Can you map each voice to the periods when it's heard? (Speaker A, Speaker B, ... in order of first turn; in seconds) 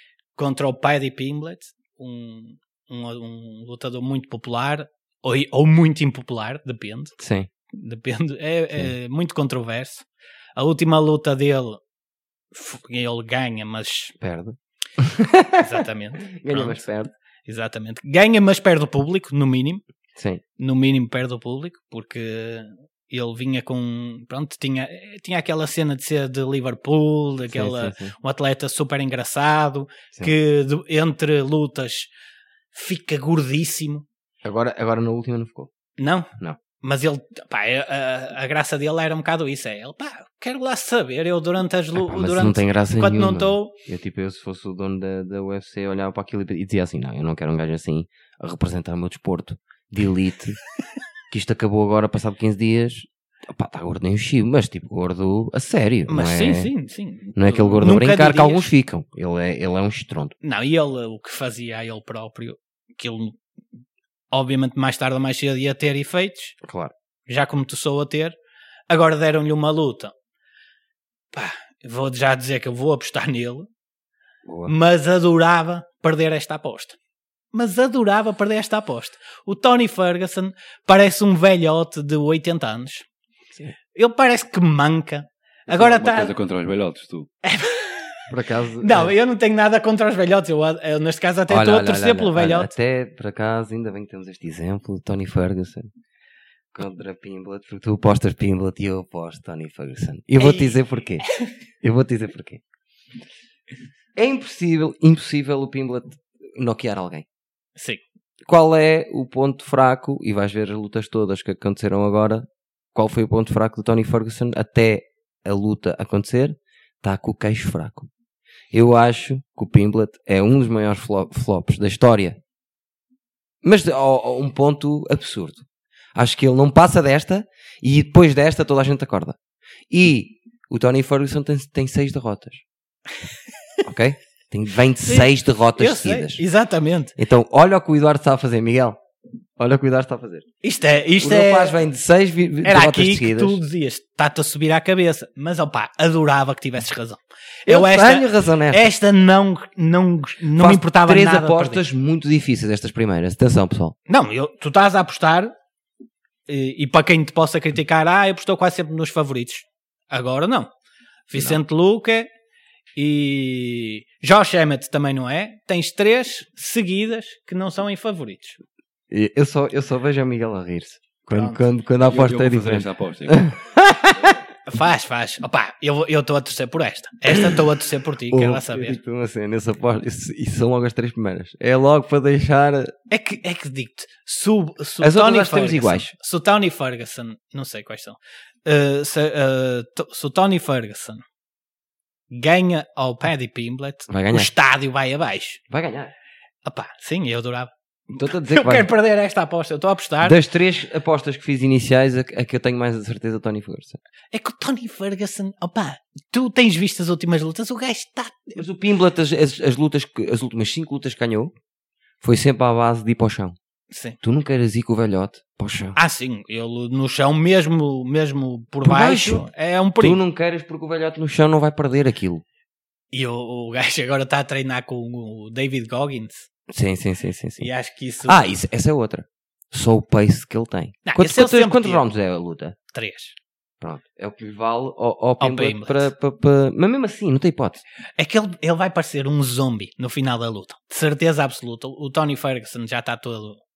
Speaker A: 0.4-7.2, 7.7-11.8, 12.5-14.2, 15.6-16.9, 17.5-19.8, 20.6-32.1, 32.7-34.0, 36.0-36.3, 36.8-43.8, 56.1-58.7, 60.4-63.4, 64.3-66.6, 67.3-68.3, 68.9-70.1, 71.3-73.7, 74.7-77.0, 77.5-83.1, 83.9-86.3, 87.4-88.2, 88.8-92.7, 100.4-101.5, 107.8-108.0, 135.1-137.1, 140.6-141.8, 142.6-151.8, 154.1-155.5, 156.5-160.7, 161.3-162.3, 163.0-168.6, 171.3-171.7, 174.7-179.0, 183.1-191.2, 192.3-195.6, 196.7-200.4, 204.3-208.6, 213.9-214.2, 215.9-220.2, 223.1-226.5, 227.6-228.5, 231.1-232.1, 232.9-233.3, 235.4-236.1, 238.2-243.6
Speaker B: 7.2-7.5, 14.2-17.1, 20.2-20.4, 27.5-28.1, 34.4-35.7, 42.0-50.6, 51.3-56.7, 57.4-60.4, 66.6-66.9, 74.5-74.7, 88.3-89.1, 91.5-95.9, 96.7-101.3, 101.8-102.6, 104.2-107.3, 108.5-118.1, 118.7-122.4, 123.6-129.4, 129.9-132.6, 133.8-136.4, 137.2-139.0, 139.6-140.5, 141.2-143.6, 147.7-148.9, 150.6-154.0, 161.4-161.6, 169.1-174.4, 177.3-177.6, 178.3-182.9, 185.0-186.1, 194.1-194.5, 195.7-196.1, 198.1-198.9, 200.2-204.0, 208.6-211.5, 212.2-213.6, 214.2-216.0, 218.8-219.5, 220.0-222.4, 226.7-227.7, 228.2-232.8, 233.8-237.8
Speaker C: 85.7-87.3, 172.0-173.5